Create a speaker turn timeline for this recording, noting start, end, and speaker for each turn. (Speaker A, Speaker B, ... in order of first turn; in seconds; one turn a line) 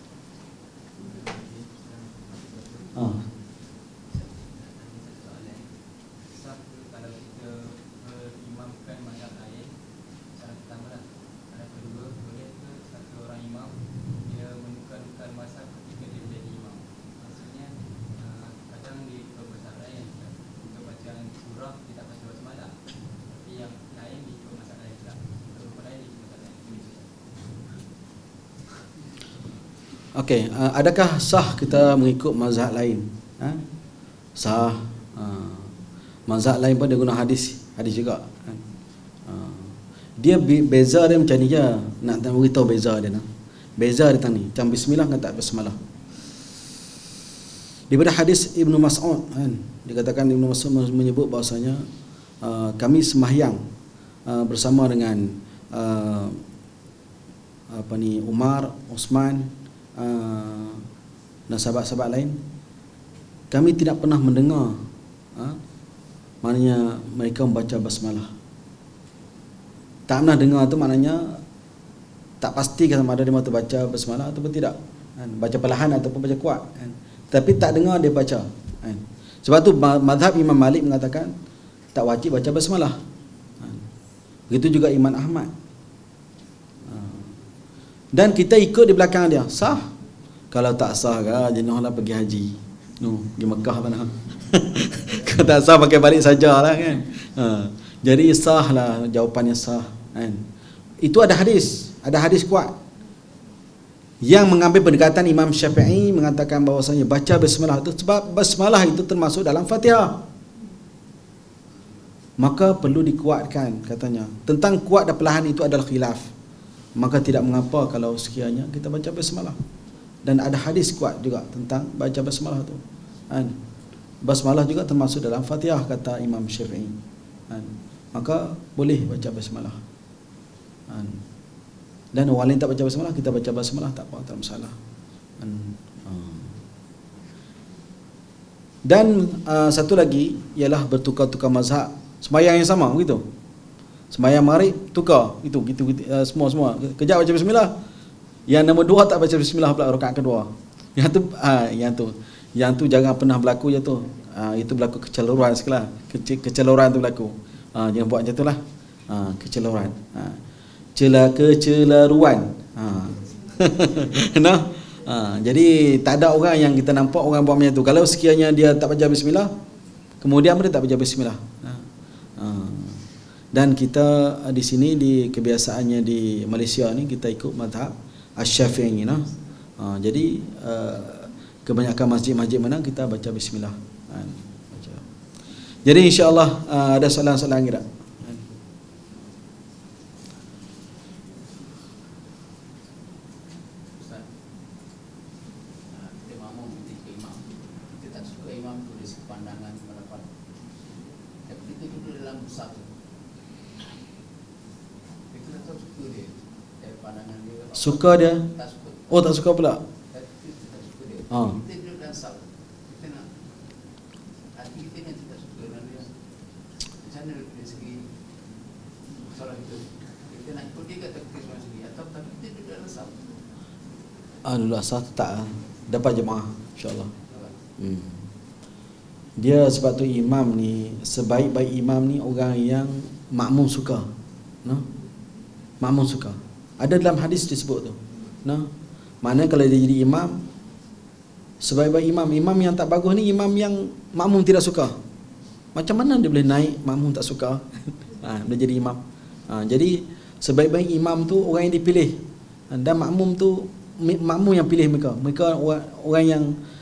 Speaker A: 1.0-3.4
Speaker A: 4.1-5.7
Speaker A: 6.2-9.7
Speaker A: 10.3-27.5
Speaker B: 30.1-33.6
Speaker B: 34.4-35.7
Speaker B: 36.3-38.6
Speaker B: 39.2-43.2
Speaker B: 43.8-45.8
Speaker B: 47.9-51.8
Speaker B: 52.4-53.6
Speaker B: 54.3-56.4
Speaker B: 57.7-60.8
Speaker B: 61.5-62.4
Speaker B: 63.5-64.8
Speaker B: 66.4-68.3
Speaker B: 70.1-71.3
Speaker B: 72.4-81.3
Speaker B: 81.9-83.0
Speaker B: 84.5-85.5
Speaker B: 86.9-87.3
Speaker B: 88.1-89.8
Speaker B: 90.5-100.4
Speaker B: 101.0-102.7
Speaker B: 104.2-110.2
Speaker B: 112.4-116.3
Speaker B: 117.0-119.6
Speaker B: 120.2-123.5
Speaker B: 124.2-127.0
Speaker B: 127.5-129.8
Speaker B: 130.9-131.2
Speaker B: 132.1-134.7
Speaker B: 135.4-136.6
Speaker B: 138.8-143.2
Speaker B: 144.1-147.7
Speaker B: 148.5-160.4
Speaker B: 160.9-169.5
Speaker B: 170.2-171.8
Speaker B: 172.4-173.0
Speaker B: 173.5-185.0
Speaker B: 185.8-188.4
Speaker C: 193.9-194.3
Speaker C: 195.9-200.3
Speaker C: 201.5-203.1
Speaker C: 205.3-209.1
Speaker B: 207.8-208.4
Speaker B: 209.1-209.8
Speaker C: 210.1-213.4
Speaker B: 211.3-211.6
Speaker C: 214.5-216.1
Speaker C: 217.0-218.1
Speaker C: 219.2-223.3
Speaker B: 224.4-227.1
Speaker C: 227.3-227.5
Speaker B: 227.8-228.2
Speaker B: 229.4-234.1
Speaker B: 235.8-238.7
Speaker B: 239.2-240.4
Speaker B: 241.6-244.9
Speaker B: 245.7-256.6